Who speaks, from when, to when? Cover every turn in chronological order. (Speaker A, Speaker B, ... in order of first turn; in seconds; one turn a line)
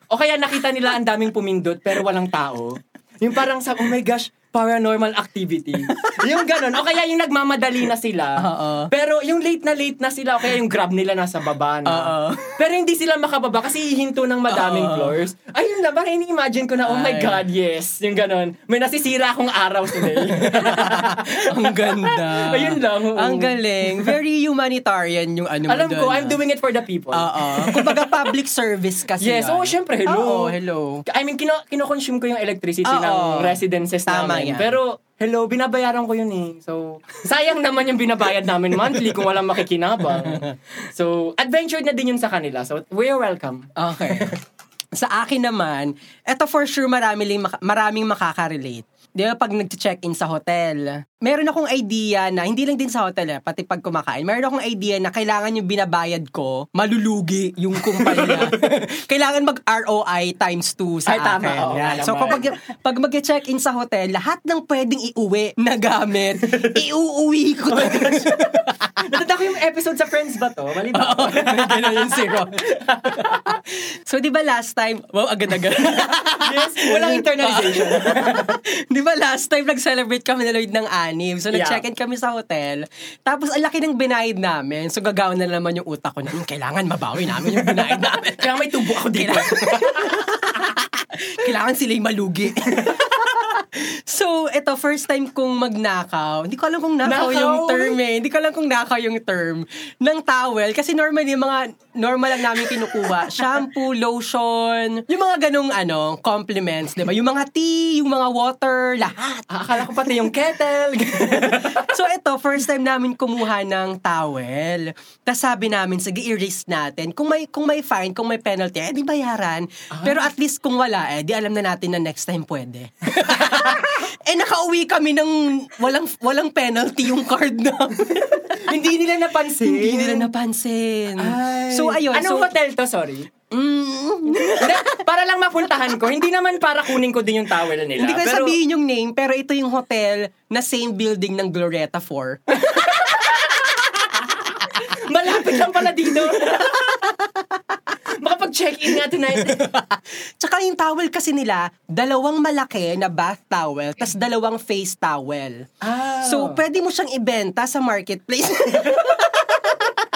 Speaker A: 0.1-24.2
Speaker B: 5.9-6.2
Speaker B: 8.4-8.9
Speaker B: 11.8-12.6
Speaker B: 14.5-15.1
Speaker B: 16.9-17.4
Speaker B: 20.0-26.4
Speaker A: 25.7-28.3
Speaker B: 27.1-31.0
Speaker A: 29.2-30.6
Speaker A: 31.1-44.4
Speaker B: 32.8-34.8
Speaker B: 43.8-44.4
Speaker B: 44.9-69.0
Speaker A: 57.8-58.7
Speaker A: 61.1-62.5
Speaker A: 66.5-66.8
Speaker A: 67.7-73.6
Speaker B: 70.9-110.2
Speaker A: 75.9-78.6
Speaker A: 81.5-81.8
Speaker A: 87.4-90.2
Speaker A: 92.8-93.5
Speaker A: 97.0-98.0
Speaker A: 109.5-111.9
Speaker B: 111.5-128.7
Speaker A: 119.9-120.2
Speaker A: 123.2-123.9
Speaker A: 128.4-130.3
Speaker B: 129.6-132.5
Speaker A: 131.2-133.3
Speaker B: 133.5-135.0
Speaker A: 134.5-138.6
Speaker B: 138.0-143.4
Speaker A: 142.6-147.1
Speaker B: 146.3-147.6
Speaker A: 148.1-149.7
Speaker B: 149.4-155.7
Speaker A: 155.8-156.6
Speaker B: 156.2-159.9
Speaker A: 158.8-159.4